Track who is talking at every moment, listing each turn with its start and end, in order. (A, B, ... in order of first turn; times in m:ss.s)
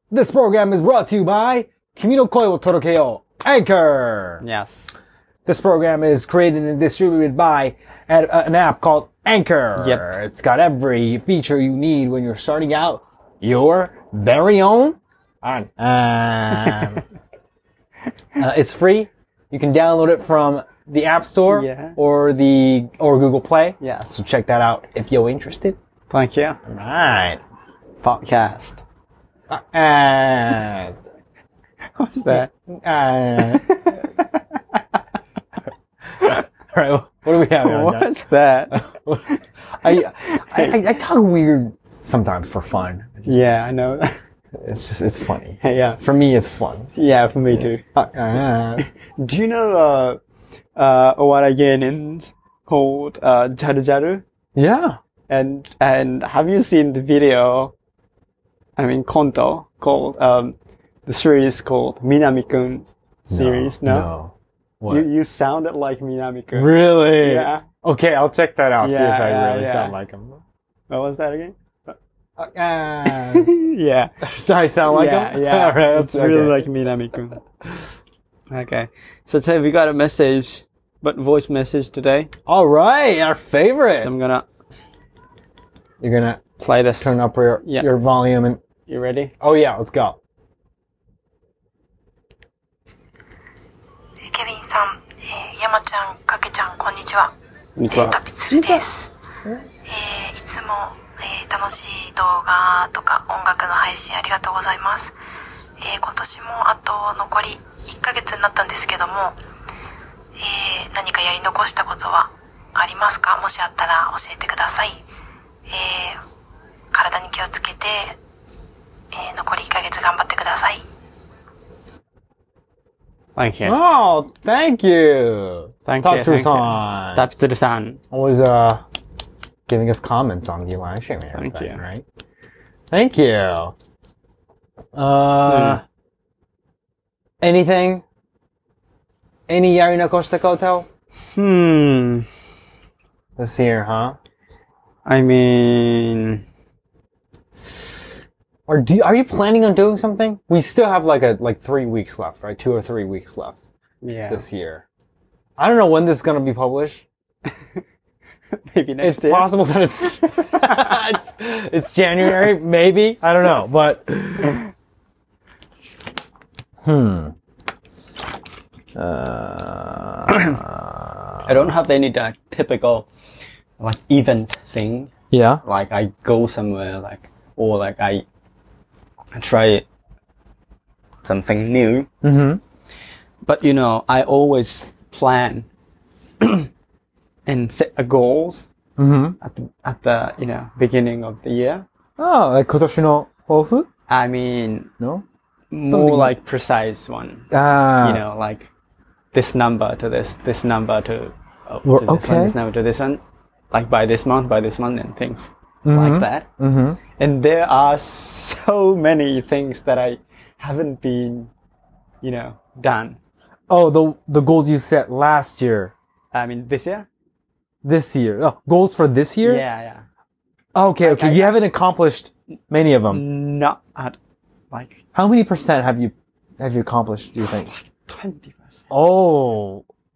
0:00.1-0:04.4 A
0:04.4-0:04.9 B
0:05.5-0:17.0 A
0:09.8-0:10.1 B
0:18.4-0:25.8 A
0:21.5-0:22.0 B
0:23.8-0:24.1 B
0:26.1-0:26.6 B
0:26.7-0:27.4 A
0:28.0-0:28.8 B
0:29.5-0:31.0 A
0:32.0-0:32.5 B
0:32.3-0:33.6 A
0:33.5-0:34.6 B
0:36.2-0:38.1 A
0:37.5-0:38.8 B
0:38.7-0:43.5 A
0:39.9-0:40.9 B
0:43.3-0:44.1 B
0:44.6-0:46.9 A
0:45.6-0:46.0 B
0:47.0-0:47.8 B
0:47.5-0:48.9 A
0:49.0-0:50.2 B
0:50.8-0:54.2 B
0:54.6-0:55.0 A
0:55.3-0:57.7 B
0:58.8-1:04.1 B
1:03.3-1:05.1 A
1:04.9-1:07.6 B
1:06.5-1:10.4 A
1:08.8-1:10.0 B
1:10.9-1:11.9 B
1:12.4-1:13.5 A
1:13.1-1:14.1 B
1:14.2-1:16.6 A
1:14.9-1:17.4 B
1:18.5-1:22.3 B
1:22.5-1:24.1 A
1:23.9-1:24.5 B
1:26.0-1:26.4 A
1:26.6-1:27.9 B
1:27.0-1:28.6 A
1:28.9-1:29.3 B
1:29.4-1:30.2 A
1:34.2-1:37.3 C
1:37.8-1:38.9 B
1:37.9-1:39.1 C
1:39.9-1:45.2 C
1:45.8-1:49.4 C
1:50.4-1:55.0 C
1:55.7-1:56.2 C
1:56.9-1:58.2 C
1:59.1-2:00.8 C
2:03.4-2:03.8 B
2:03.6-2:07.2 A
2:05.9-2:08.0 B
2:08.1-2:08.8 A
2:09.7-2:12.0 A
2:11.3-2:11.8 B
2:12.9-2:13.8 A
2:15.0-2:15.8 A
2:15.5-2:15.8 B
2:17.4-2:18.0 A
2:19.5-2:20.9 A
2:21.4-2:22.3 B
2:23.4-2:24.2 A
2:25.0-2:26.4 B
2:28.7-2:33.6 A
2:34.0-2:34.4 B
2:34.3-2:34.8 A
2:35.6-2:37.0 A
2:38.6-2:39.5 B
2:39.0-2:44.6 A
2:40.2-2:40.9 B
2:46.8-2:47.3 A
2:49.0-2:51.5 A
2:51.5-2:53.1 B
2:53.8-2:55.1 B
2:55.3-2:55.6 A
2:55.6-2:58.2 B
2:59.4-2:59.8 B
3:01.2-3:02.1 B
3:02.2-3:02.6 A
3:03.4-3:05.7 B
3:06.4-3:06.7 B
3:07.5-3:08.6 B
3:09.0-3:09.4 A
3:09.4-3:11.8 B
3:12.2-3:13.9 A
3:14.1-3:14.9 B
3:15.0-3:15.2 A
3:15.7-3:18.7 B
3:15.8-3:16.4 A
3:17.5-3:18.2 A
3:19.3-3:26.5 B
3:21.8-3:22.6 A
3:25.8-3:27.0 A
3:27.2-3:31.5 B
3:32.2-3:33.2 B
3:33.7-3:35.9 A
3:36.3-3:37.1 B
3:37.8-3:39.6 A
3:39.4-3:40.0 B
3:40.8-3:43.2 A
3:41.0-3:41.6 B
3:43.1-3:44.2 B
3:44.7-3:45.0 B
3:45.1-3:47.7 A
3:47.7-3:48.8 B
3:48.9-3:49.8 A